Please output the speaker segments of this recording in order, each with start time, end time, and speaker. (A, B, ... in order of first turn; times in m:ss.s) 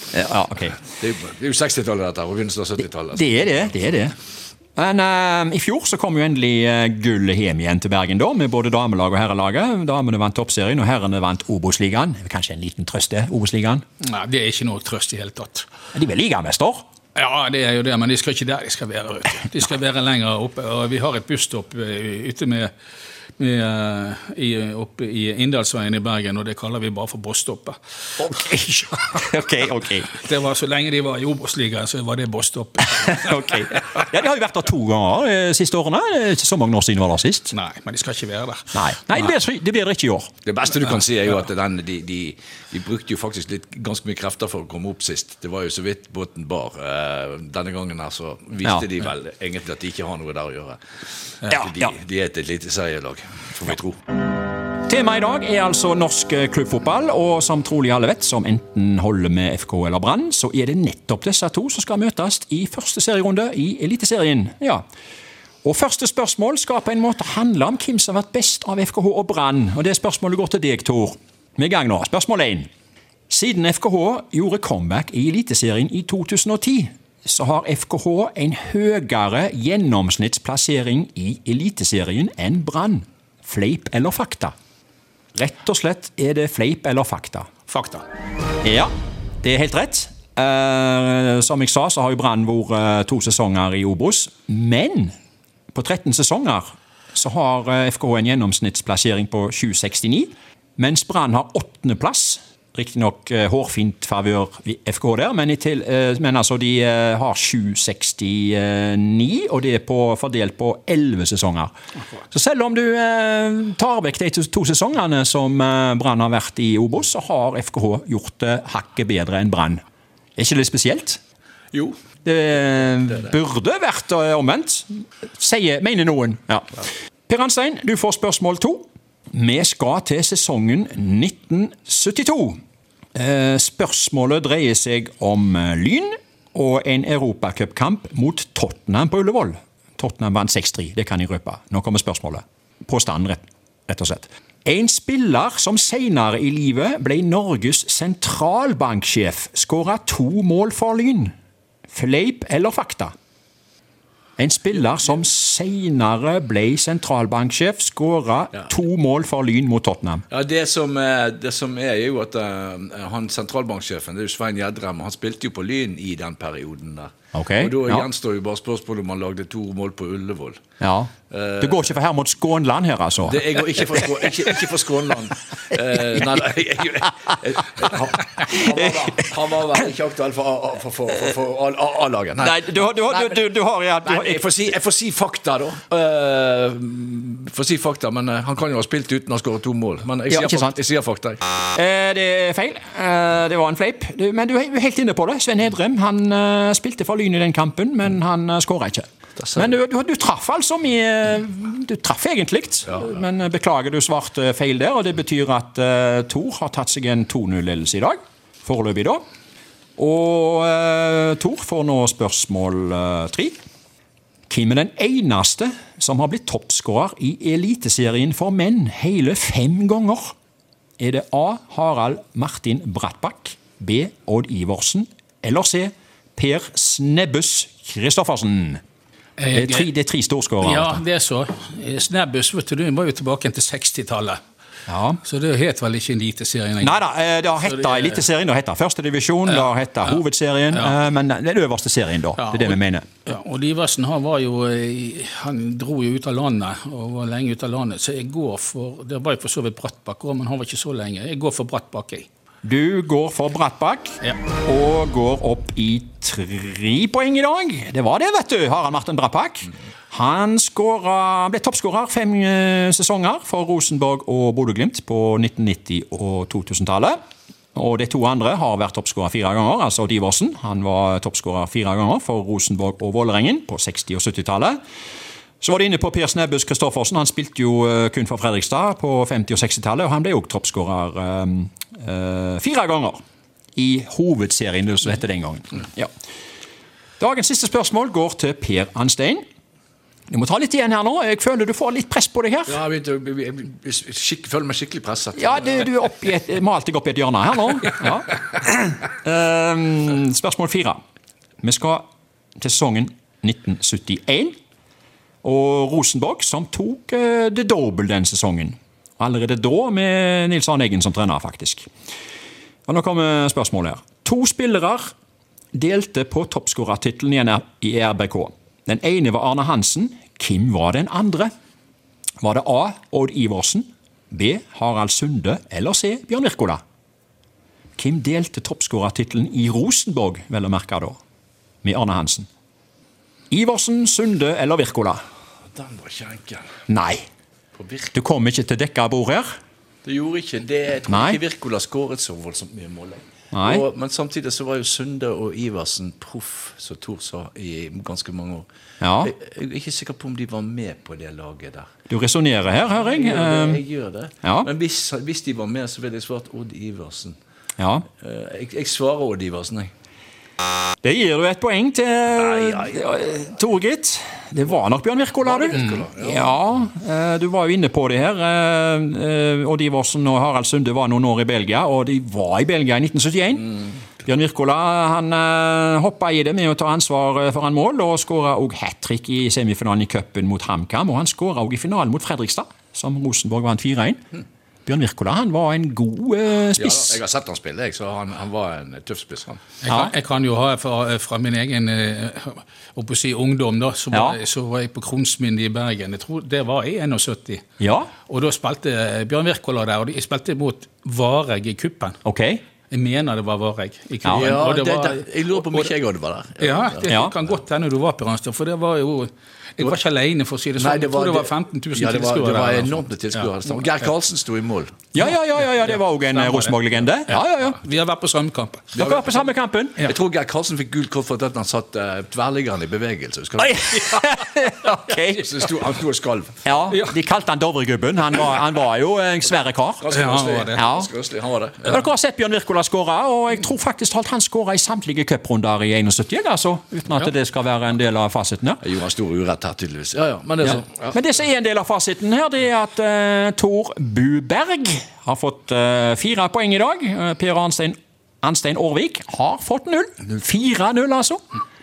0:00.1-0:00.8 A
0:00.8-0:03.8 B
0:03.1-0:04.2 A
0:04.8-0:13.8 A
0:14.0-0:15.7 C
0:15.9-0:16.9 A
0:17.2-0:22.7 C
0:23.4-0:27.8 C
0:28.2-0:30.2 A
0:30.1-0:33.5 C
0:33.1-0:37.5 A
0:37.5-0:38.8 C
0:38.7-0:40.3 A
0:40.4-0:50.8 B
0:51.4-0:54.0 B
0:51.5-0:51.9 A
0:54.9-1:04.8 A
1:05.6-1:12.7 A
1:13.3-1:24.5 A
1:25.4-1:27.5 A
1:27.7-1:28.0 C
1:28.6-1:28.9 A
1:29.4-1:35.1 A
1:35.7-1:51.7 A
1:52.3-1:59.8 A
2:00.4-2:01.2 A
2:01.7-2:02.0 B
2:02.2-2:12.6 A
2:13.2-2:31.3 A
2:31.9-2:33.1 A
2:34.4-2:40.2 A
2:40.3-2:50.6 B
2:47.3-2:48.1 A
2:50.8-2:53.5 A
2:51.3-2:51.9 B
2:53.2-3:03.4 B
3:02.4-3:04.4 A
3:04.0-3:11.4 B
3:10.3-3:10.8 A
3:11.8-3:29.2 A
3:19.4-3:19.7 B
3:30.0-3:33.6 A
3:34.5-3:40.3 A
3:41.0-3:48.8 A
3:49.4-3:49.9 C
3:49.5-3:51.0 A
3:50.6-3:54.4 C
3:54.9-3:55.2 A
3:55.2-3:57.0 C
3:56.8-4:03.1 A
3:57.6-3:58.2 C
4:00.7-4:01.0 C
4:02.4-4:12.3 C
4:12.6-4:27.2 A
4:27.8-4:34.8 A
4:35.6-4:43.2 A
4:43.8-4:46.1 A
4:47.2-4:49.4 A
4:50.3-4:52.8 A
4:52.7-4:55.9 B
4:55.4-5:01.0 A
5:01.6-5:02.1 A
5:02.6-5:04.6 A
5:05.4-5:11.9 A
5:12.9-5:15.1 A
5:15.7-5:21.5 A
5:22.4-5:26.8 A
5:28.0-5:31.2 A
5:31.8-5:32.5 A
5:33.5-5:35.2 A
5:35.7-5:36.7 B
5:36.9-5:37.2 A
5:37.8-5:38.1 B
5:38.1-5:39.5 A
5:40.0-5:48.7 B
5:41.1-5:41.4 A
5:43.5-5:43.8 A
5:49.0-5:49.3 A
5:49.2-5:51.9 B
5:52.1-5:53.8 A
5:53.0-5:57.4 B
5:54.4-5:54.7 A
5:57.8-5:58.1 A
5:58.2-5:59.9 B
6:01.0-6:24.2 A
6:02.4-6:02.9 B
6:05.4-6:06.6 B
6:24.9-6:27.2 A
6:26.8-6:29.6 B
6:29.8-6:37.6 C
6:29.9-6:30.1 A
6:34.1-6:34.4 A
6:37.8-6:38.1 A
6:38.2-6:42.2 C
6:42.2-6:42.6 A
6:42.9-6:45.9 C
6:44.3-6:47.1 B
6:46.6-6:53.6 C
6:47.1-6:47.4 A
6:50.8-6:55.0 B
6:55.1-6:57.8 A
6:55.2-6:58.9 C
6:59.0-7:04.4 B
6:59.0-7:00.1 A
7:03.6-7:05.5 A
7:05.1-7:06.7 B
7:06.6-7:11.1 A
7:10.0-7:12.1 B
7:10.1-7:10.8 C
7:11.8-7:18.8 A
7:18.8-7:21.2 B
7:20.6-7:31.4 A